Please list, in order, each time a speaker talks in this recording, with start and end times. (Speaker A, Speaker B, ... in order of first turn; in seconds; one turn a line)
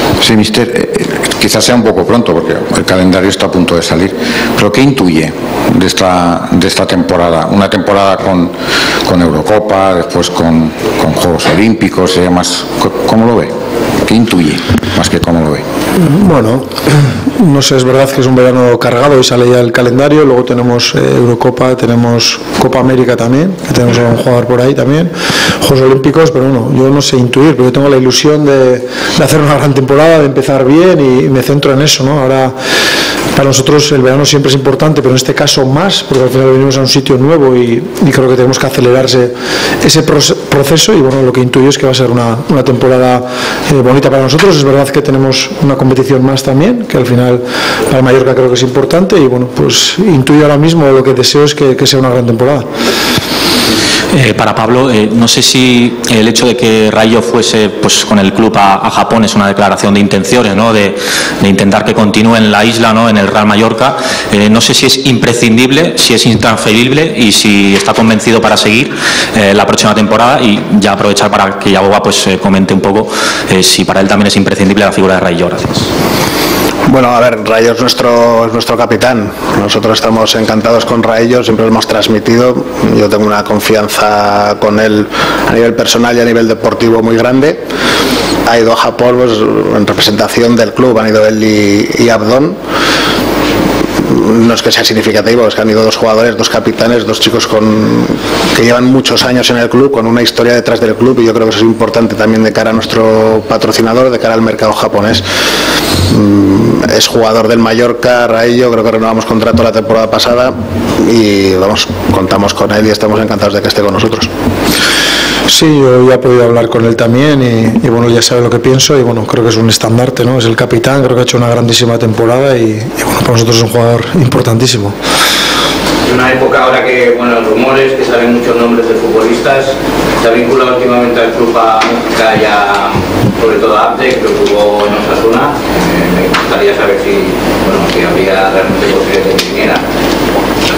Speaker A: 0.2-8.5
Speaker A: 9.1-15.6
Speaker B: 16.0-32.6
Speaker B: 33.4-52.7
Speaker C: 54.1-75.9
Speaker D: 76.9-87.6
Speaker D: 88.5-92.6
Speaker D: 94.1-105.2
Speaker D: 106.1-114.3
Speaker B: 115.5-125.0
Speaker E: 126.0-139.8